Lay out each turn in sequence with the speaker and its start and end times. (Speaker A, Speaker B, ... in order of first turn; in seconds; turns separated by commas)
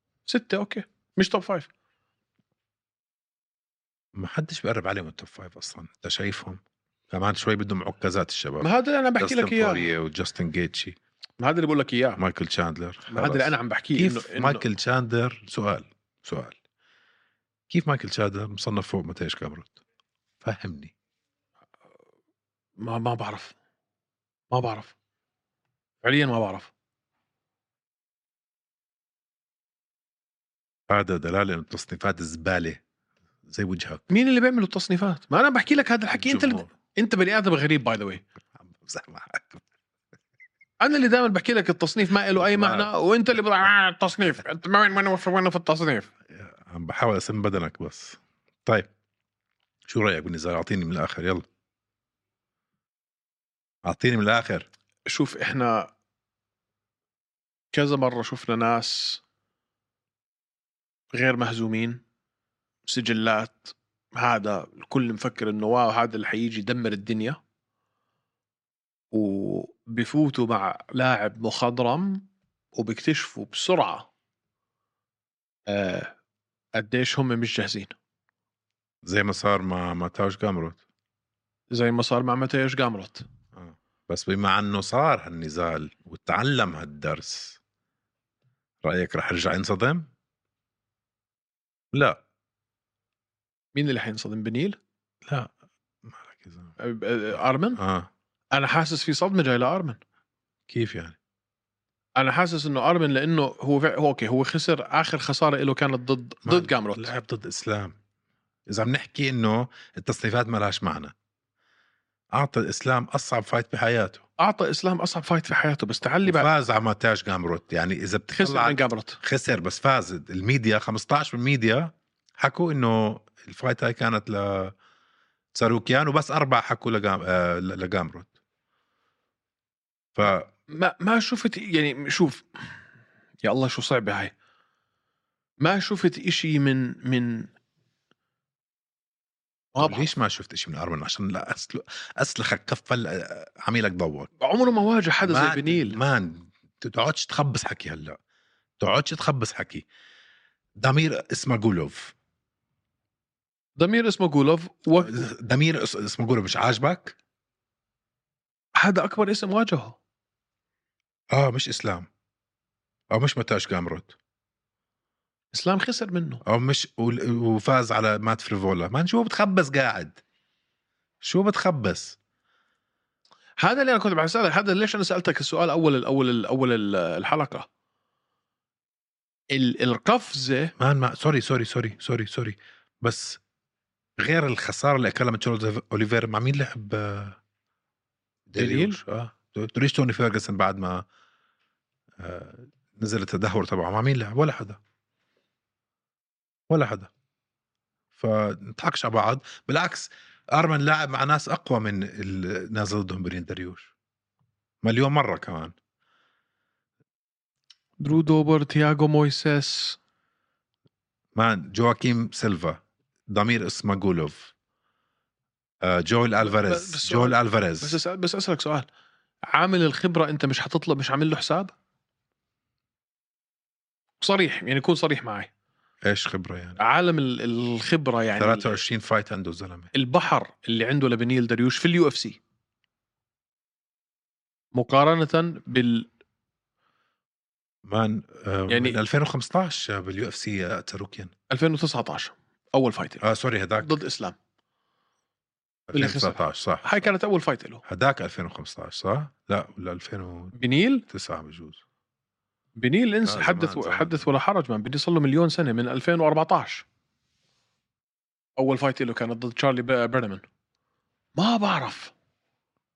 Speaker A: 0.3-1.7, Speaker B: 4.1-11.0, Speaker A: 8.6-9.9, Speaker A: 11.4-12.2, Speaker B: 12.2-16.6, Speaker A: 13.1-14.6, Speaker B: 17.7-19.8, Speaker B: 20.4-20.9, Speaker A: 22.8-23.5, Speaker A: 24.5-24.9, Speaker A: 26.0-26.7, Speaker B: 30.9-32.8, Speaker B: 33.5-34.0, Speaker A: 34.1-38.2, Speaker B: 36.1-36.7, Speaker B: 38.6-39.6, Speaker A: 40.8-46.1, Speaker B: 42.4-42.9, Speaker B: 46.3-48.9, Speaker B: 49.9-51.5, Speaker B: 53.8-54.7, Speaker A: 55.1-55.9, Speaker A: 57.7-59.2, Speaker A: 61.1-62.0, Speaker A: 62.9-67.4, Speaker A: 69.1-74.1, Speaker A: 75.7-76.1, Speaker A: 76.8-77.9, Speaker B: 79.0-80.8, Speaker A: 81.7-83.2, Speaker B: 83.5-87.6, Speaker B: 88.8-90.1, Speaker B: 91.9-92.2, Speaker A: 93.8-94.8, Speaker B: 95.2-95.5, Speaker B: 96.0-96.8, Speaker A: 96.8-97.8, Speaker B: 97.8-98.1, Speaker A: 98.5-100.0, Speaker B: 100.7-101.2, Speaker A: 102.2-107.1, Speaker B: 106.4-107.9, Speaker B: 108.7-111.1, Speaker B: 112.3-114.2, Speaker A: 114.4-116.5, Speaker B: 116.2-124.8, Speaker A: 118.3-119.2, Speaker B: 125.5-128.3, Speaker B: 130.2-130.5, Speaker A: 130.7-132.4, Speaker A: 133.4-134.3, Speaker A: 135.6-137.5, Speaker A: 139.8-140.1, Speaker B: 139.8-144.3, Speaker A: 144.4-146.0, Speaker B: 145.2-148.2, Speaker B: 148.8-149.9, Speaker B: 150.8-152.1, Speaker A: 153.8-155.2, Speaker B: 154.9-157.2, Speaker A: 158.8-160.0, Speaker B: 161.3-162.1, Speaker B: 163.1-164.2, Speaker A: 165.5-166.4, Speaker B: 166.4-170.2, Speaker B: 171.2-172.2, Speaker A: 173.6-177.7, Speaker A: 179.5-180.7, Speaker B: 180.8-183.4, Speaker B: 184.2-187.4, Speaker B: 188.5-191.0, Speaker A: 188.6-189.0, Speaker B: 192.2-194.8, Speaker B: 196.7-197.1, Speaker B: 198.2-203.9, Speaker B: 204.8-205.8, Speaker A: 208.0-210.0, Speaker B: 211.3-214.5, Speaker B: 215.8-218.0, Speaker A: 216.4-218.9, Speaker A: 219.5-221.7, Speaker A: 224.2-225.5, Speaker B: 226.0-226.8, Speaker A: 226.8-228.8, Speaker B: 228.4-229.9, Speaker A: 229.9-232.4, Speaker A: 234.8-236.1, Speaker B: 237.8-241.3, Speaker A: 238.7-239.0, Speaker A: 241.5-243.2, Speaker B: 243.2-243.9, Speaker A: 243.8-244.4, Speaker B: 245.9-247.1, Speaker A: 245.9-247.8, Speaker B: 247.9-250.5, Speaker A: 250.5-251.0, Speaker B: 251.1-251.8, Speaker A: 252.8-256.8, Speaker B: 253.2-254.3, Speaker A: 258.6-260.4, Speaker A: 261.4-262.1